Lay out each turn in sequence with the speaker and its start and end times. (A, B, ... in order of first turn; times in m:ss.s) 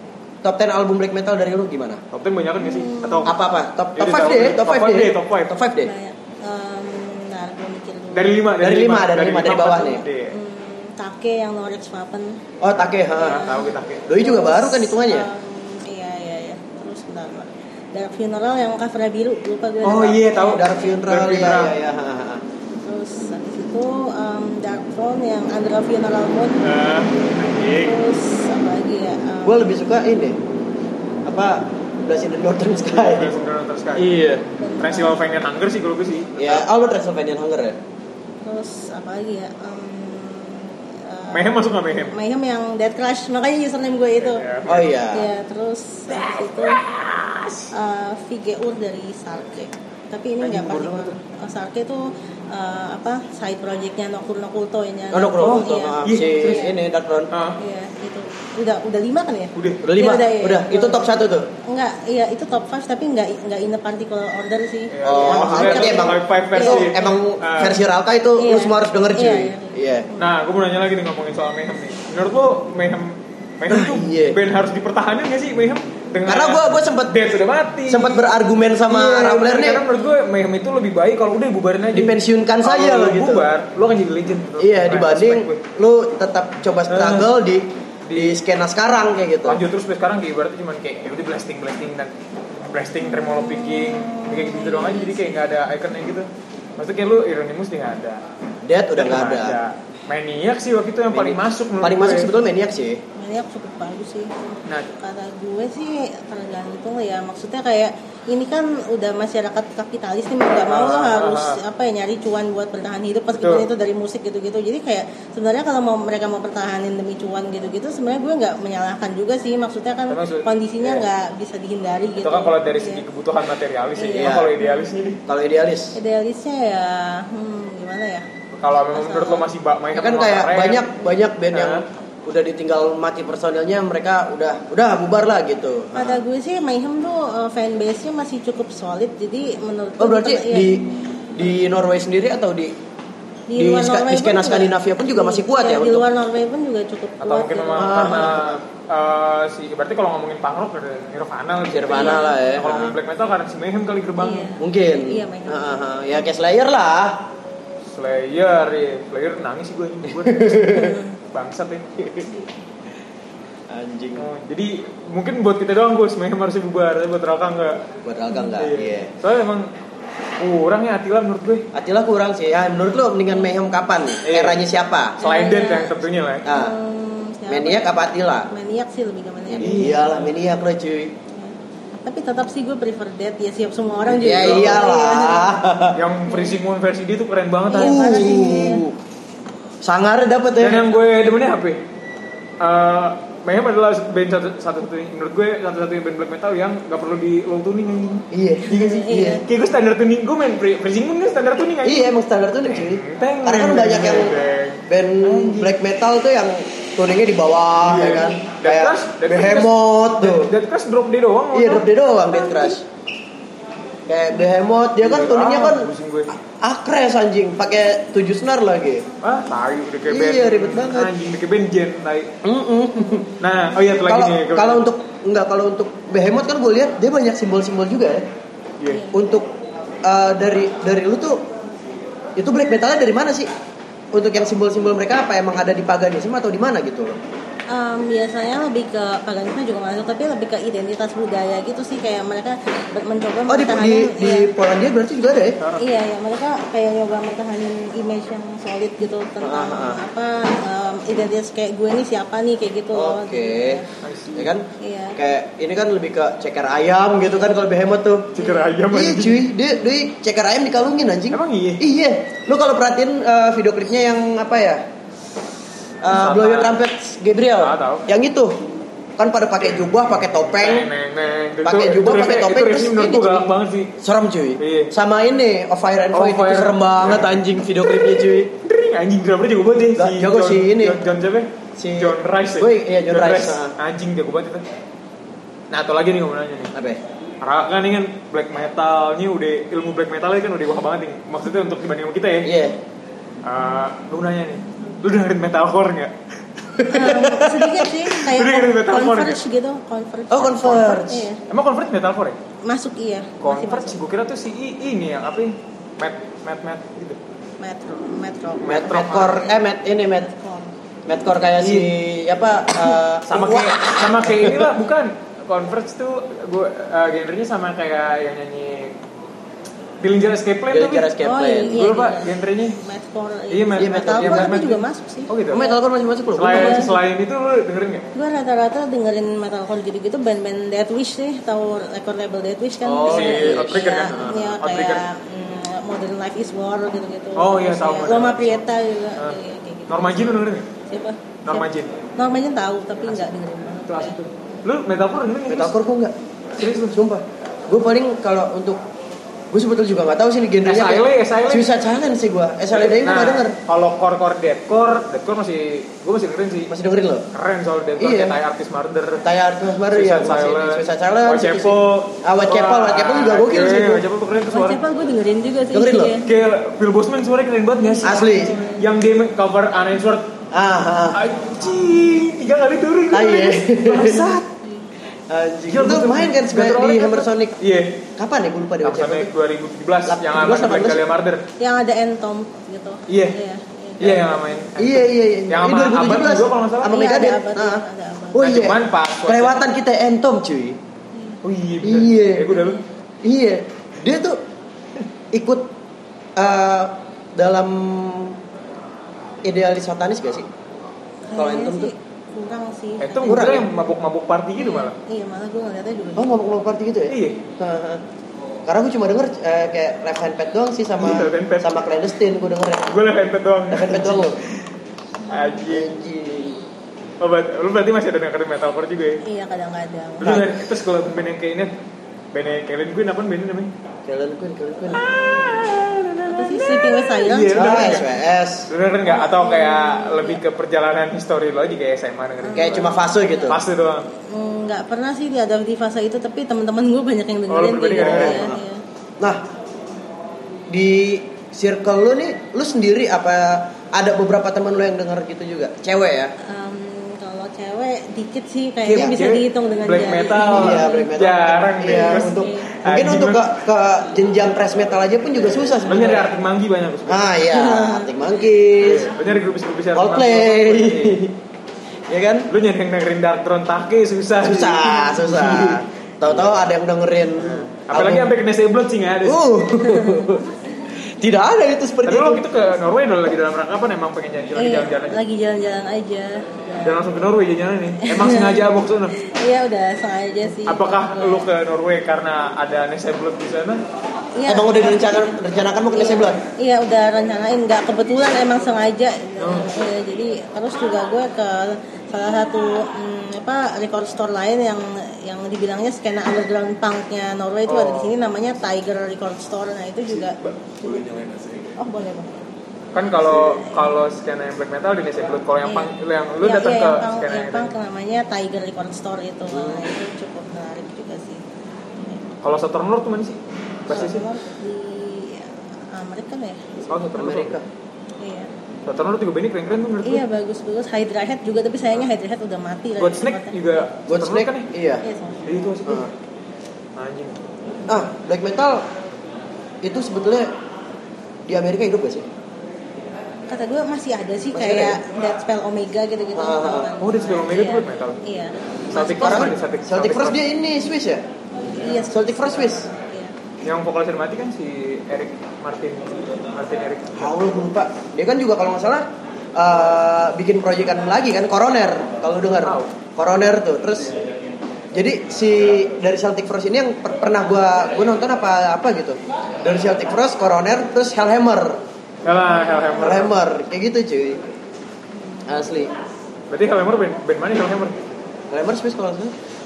0:00.4-0:02.0 A
0:02.1-0:03.4 B
0:02.6-0:03.3 C
0:03.2-0:05.9 A
0:04.0-0:05.5 B
0:05.8-0:08.4 C
0:08.1-0:10.3 B
0:08.6-0:10.0 A
0:10.3-0:12.4 C
0:12.6-0:13.5 A
0:13.1-0:21.0 C
0:13.2-0:14.1 B
0:14.1-0:15.3 A
0:19.8-0:21.7 B
0:20.5-0:22.4 A
0:22.8-0:26.7 C
0:26.6-0:28.0 B
0:27.2-0:29.8 C
0:29.4-0:30.4 A
0:31.2-0:33.4 A
0:32.9-0:34.3 B
0:34.0-0:34.4 A
0:34.6-0:35.2 C
0:34.8-0:36.6 B
0:36.4-0:37.8 A
0:38.4-0:44.4 C
0:41.3-0:42.1 B
0:44.2-0:45.0 B
0:44.7-0:45.3 A
0:45.1-0:46.8 C
0:46.2-0:47.7 B
0:47.7-0:56.8 C
0:50.4-0:51.1 B
0:55.1-0:57.3 A
0:56.0-0:56.7 B
0:57.3-0:57.6 B
0:57.6-1:01.1 C
0:59.6-0:59.8 B
0:59.8-1:01.5 A
1:01.7-1:07.2 C
1:04.9-1:07.8 B
1:05.0-1:10.1 A
1:08.4-1:10.3 C
1:10.2-1:18.3 B
1:13.7-1:14.4 A
1:16.2-1:17.3 A
1:17.9-1:19.9 A
1:18.9-1:25.6 B
1:21.9-1:23.5 A
1:24.6-1:29.6 A
1:26.9-1:27.3 B
1:28.1-1:28.4 B
1:29.4-1:38.2 B
1:33.2-1:35.5 C
1:38.6-1:39.6 A
1:39.0-1:42.3 B
1:41.1-1:43.0 A
1:43.2-2:03.0 C
1:50.7-1:51.6 B
1:53.3-1:53.7 B
2:00.1-2:01.1 B
2:02.2-2:05.2 B
2:04.0-2:04.9 C
2:04.2-2:04.5 A
2:05.3-2:06.0 A
2:06.0-2:08.3 C
2:08.6-2:10.9 B
2:08.9-2:09.5 C
2:10.0-2:16.2 A
2:11.5-2:11.8 B
2:15.9-2:20.8 C
2:20.0-2:22.7 A
2:23.5-2:28.4 C
2:23.6-2:26.1 A
2:27.2-2:34.5 B
2:27.8-2:28.6 A
2:31.7-2:33.0 A
2:31.9-2:32.4 C
2:34.2-2:35.9 C
2:34.6-2:37.3 A
2:37.9-2:41.9 B
2:40.1-2:41.0 A
2:40.7-2:41.2 C
2:42.0-2:42.3 A
2:43.7-2:44.3 A
2:44.2-2:47.9 B
2:48.0-2:49.1 A
2:48.6-2:49.7 B
2:50.4-2:51.7 B
2:51.7-2:55.2 A
2:54.2-2:54.6 B
2:55.2-2:56.5 B
2:55.2-2:57.9 C
2:56.4-2:56.7 A
2:57.5-2:58.5 A
2:58.5-3:00.1 C
2:59.5-3:01.1 A
2:59.6-3:00.3 B
3:01.3-3:05.6 C
3:04.1-3:06.0 A
3:04.2-3:04.8 B
3:06.0-3:08.7 B
3:06.3-3:06.6 C
3:07.7-3:08.8 C
3:07.7-3:09.0 A
3:09.8-3:10.9 A
3:10.6-3:11.8 B
3:12.6-3:22.1 B
3:18.3-3:19.4 A
3:18.7-3:19.4 C
3:21.8-3:24.4 A
3:22.6-3:25.7 B
3:24.9-3:30.5 A
3:27.8-3:31.9 B
3:31.5-3:32.8 A
3:34.1-3:39.1 A
3:35.0-3:36.4 B
3:39.2-3:42.3 B
3:40.1-3:41.1 A
3:42.4-3:43.3 A
3:43.4-3:44.8 B
3:44.1-3:48.2 A
3:48.8-3:49.0 B
3:48.9-3:49.2 C
3:49.1-3:49.5 A
3:50.0-3:51.4 A
3:52.4-3:53.5 A
3:54.1-3:57.2 A
3:57.7-4:04.5 C
4:03.5-4:05.6 A
4:05.6-4:05.8 B
4:05.8-4:13.9 C
4:09.4-4:10.0 A
4:12.9-4:13.8 A
4:14.0-4:14.5 B
4:14.4-4:24.8 A
4:14.8-4:15.2 C
4:18.4-4:19.5 B
4:18.4-4:18.7 C
4:21.3-4:21.8 B
4:26.0-4:28.6 A
4:26.1-4:26.8 B
4:27.6-4:28.1 B
4:29.2-4:30.9 A
4:29.6-4:33.9 B
4:31.6-4:38.5 A
4:34.6-4:34.9 B
4:36.1-4:37.4 B
4:38.6-4:44.6 B
4:40.0-4:41.0 A
4:41.8-4:43.7 A
4:45.7-4:46.7 B
4:46.7-4:47.0 A
4:47.4-4:52.5 B
4:52.4-4:52.8 A
4:53.4-4:56.1 B
4:56.8-4:59.4 B
4:56.8-5:01.4 C
4:56.9-4:57.4 A
5:00.3-5:01.3 A
5:01.5-5:02.4 B
5:02.6-5:04.0 C
5:03.4-5:07.2 B
5:07.6-5:09.6 C
5:08.6-5:09.4 B
5:08.7-5:10.3 A
5:10.2-5:10.7 C
5:11.1-5:14.7 A
5:11.6-5:11.9 B
5:13.3-5:19.0 B
5:20.0-5:21.1 B
5:20.7-5:21.8 A
5:21.2-5:25.8 C
5:21.7-5:22.8 B
5:23.5-5:25.6 B
5:23.8-5:24.6 A
5:25.5-5:27.0 A
5:26.3-5:28.1 B
5:26.5-5:26.9 C
5:28.1-5:44.2 C
5:32.8-5:34.4 A
5:33.1-5:35.0 B
5:37.4-5:38.6 B
5:39.9-5:40.7 B
5:41.4-5:41.9 B
5:43.0-5:43.3 B
5:43.9-5:45.8 B
5:45.5-5:46.1 A
5:46.6-5:47.0 B
5:46.9-5:48.8 A
5:49.5-5:53.6 A
5:50.6-5:51.7 B
5:52.7-5:56.7 B
5:56.7-5:57.3 A
5:57.3-5:59.3 B
5:58.0-5:58.4 A
5:59.2-6:04.0 A
5:59.9-6:04.8 B
6:04.4-6:06.3 C
6:05.7-6:06.2 A
6:06.2-6:10.3 B
6:07.8-6:08.9 C
6:08.0-6:08.6 A
6:10.5-6:11.2 A
6:11.1-6:14.5 B
6:13.1-6:14.4 A
6:14.6-6:14.9 C
6:15.3-6:17.6 A
6:15.7-6:18.0 B
6:18.2-6:19.3 A
6:18.8-6:21.4 B
6:20.1-6:21.0 A
6:21.6-6:24.2 C
6:23.1-6:23.4 B
6:24.0-6:27.0 B
6:24.0-6:30.8 A
6:26.9-6:28.6 C
6:28.4-6:29.6 B
6:31.1-6:31.4 C
6:31.4-6:32.8 B
6:31.8-6:32.6 A
6:32.5-6:32.8 C
6:33.2-6:34.4 A
6:35.3-6:35.7 A
6:36.4-6:38.4 A
6:39.4-6:40.4 A
6:41.3-6:43.6 C
6:41.4-6:41.9 A
6:43.0-6:45.0 B
6:43.2-6:43.7 A
6:44.6-6:46.4 C
6:46.2-6:48.0 A
6:47.1-6:47.4 B
6:48.7-6:53.1 A
6:51.0-6:51.8 B
6:52.9-6:54.7 B
6:53.7-6:54.4 A
6:55.3-6:55.9 B
6:55.7-6:56.6 A
6:57.2-6:59.2 B
6:59.2-7:00.4 C
7:00.2-7:01.7 B
7:00.2-7:00.5 A
7:02.3-7:03.7 B
7:04.1-7:05.0 A
7:04.9-7:08.1 B
7:06.2-7:08.0 C
7:07.5-7:08.7 A
7:08.7-7:12.9 B
7:09.0-7:10.4 C
7:12.4-7:13.6 C
7:12.6-7:13.6 A
7:13.5-7:14.1 B
7:14.3-7:18.8 C
7:17.5-7:18.6 B
7:18.0-7:18.6 A
7:20.7-7:26.3 A
7:26.4-7:31.1 C
7:28.9-7:33.5 B
7:30.4-7:36.3 A
7:31.8-7:32.7 C
7:35.8-7:37.3 B
7:37.1-7:39.2 A
7:37.5-7:38.1 C
7:38.8-7:41.2 B
7:40.0-7:41.4 A
7:42.1-7:42.5 A
7:42.5-7:46.5 B
7:44.4-7:48.3 A
7:47.4-7:49.4 B
7:49.2-7:52.4 A
7:49.8-7:50.3 C
7:52.1-7:55.2 B
7:54.6-7:57.0 C
7:56.8-7:59.2 B
7:58.0-8:01.5 C
8:00.6-8:03.8 B
8:04.4-8:05.4 C
8:04.5-8:06.4 A
8:05.9-8:21.1 C
8:09.4-8:09.7 B
8:17.7-8:18.1 B
8:20.4-8:21.6 B
8:21.8-8:22.4 C
8:22.9-8:27.7 B
8:23.1-8:23.7 C
8:25.6-8:31.4 C
8:32.0-8:32.3 C
8:32.4-8:34.2 B
8:33.9-8:36.9 C
8:36.9-8:37.6 B
8:37.1-8:37.7 A
8:38.2-8:38.5 C
8:38.9-8:40.2 B
8:40.0-8:43.9 C
8:43.0-8:44.7 B
8:44.1-8:45.0 A
8:45.0-8:45.7 C
8:45.4-8:46.1 B
8:45.9-8:46.1 A
8:47.0-8:47.4 B
8:47.9-8:48.8 A
8:49.8-8:50.5 A
8:51.5-8:52.3 A
8:53.5-8:59.5 C
8:54.5-8:55.0 A
8:56.4-8:56.9 A
8:57.0-8:58.2 B
8:58.9-9:00.4 B
8:59.1-9:01.2 A
9:01.6-9:03.4 C
9:01.8-9:02.9 A
9:03.6-9:07.4 B
9:07.2-9:14.2 A
9:12.6-9:12.9 B
9:14.9-9:21.8 A
9:22.2-9:23.3 B
9:22.6-9:22.9 C
9:23.0-9:24.4 A
9:25.2-9:25.5 C
9:25.4-9:25.9 A
9:26.5-9:28.0 B
9:28.5-9:29.4 A